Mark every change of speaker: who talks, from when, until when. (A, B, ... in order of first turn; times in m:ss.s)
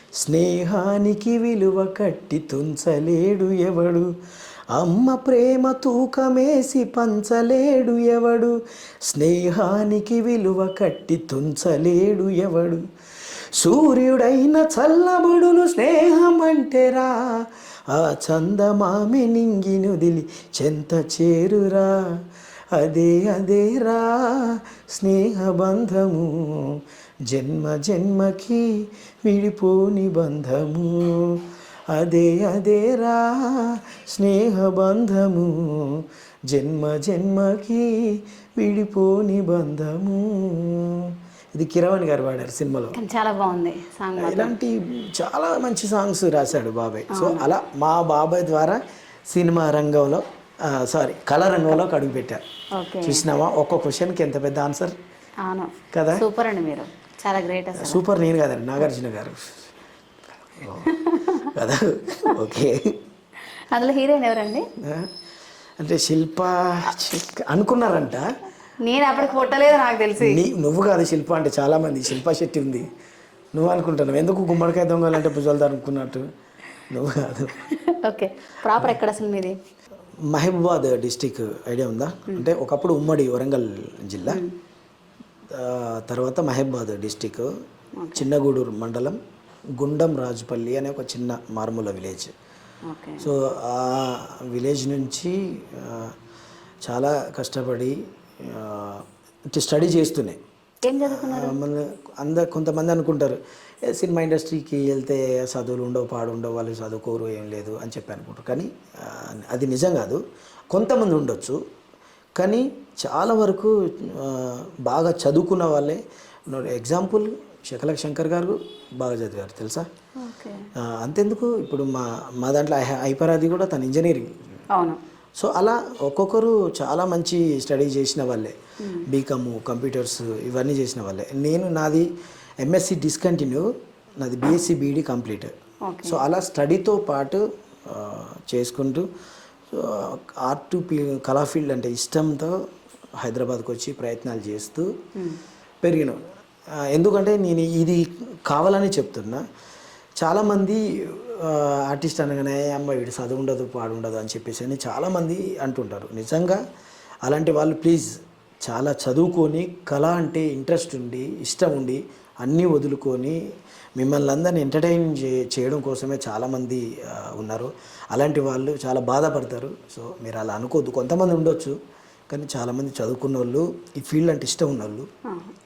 0:00.2-0:04.1 A
0:04.7-0:12.8 A
0:13.6-0:22.1 A
0:22.7-0:28.7 A
0:29.2-0:43.0 A
0:42.9-0:44.5 B
0:44.2-0:52.4 A
0:47.1-0:47.5 B
0:52.7-0:53.2 B
0:53.0-0:55.0 A
0:55.4-0:58.0 B
0:55.9-0:56.2 A
0:57.8-0:59.6 A
1:00.6-1:02.9 A
1:00.8-1:01.5 B
1:03.6-1:04.7 B
1:04.8-1:05.1 A
1:05.8-1:08.2 A
1:08.8-1:10.4 B
1:10.2-1:12.8 A
1:13.5-1:16.3 A
1:16.9-1:17.6 A
1:17.7-1:19.6 B
1:20.3-1:24.4 A
1:24.3-1:24.5 B
1:25.5-1:27.5 A
1:28.0-1:28.3 B
1:28.1-1:29.2 A
1:29.8-1:32.3 A
1:32.9-1:33.3 B
1:33.2-1:36.1 A
1:36.8-1:40.4 A
1:40.8-1:41.5 B
1:41.1-1:43.4 A
1:43.9-1:50.2 A
1:50.7-1:51.6 A
1:52.4-1:59.9 A
2:00.2-2:00.7 B
2:00.8-2:04.3 A
2:04.7-2:05.0 B
2:05.4-2:08.5 A
2:08.8-2:09.0 B
2:09.1-2:12.1 A
2:12.6-2:15.5 A
2:15.9-2:16.2 B
2:16.0-2:19.0 A
2:19.7-2:22.6 A
2:23.2-2:24.9 A
2:25.8-2:26.2 A
2:26.9-2:29.4 A
2:30.2-2:36.6 A
2:37.2-2:38.1 A
2:38.6-2:43.4 A
2:44.0-2:51.8 A
2:52.3-2:55.1 A
2:55.3-2:55.5 B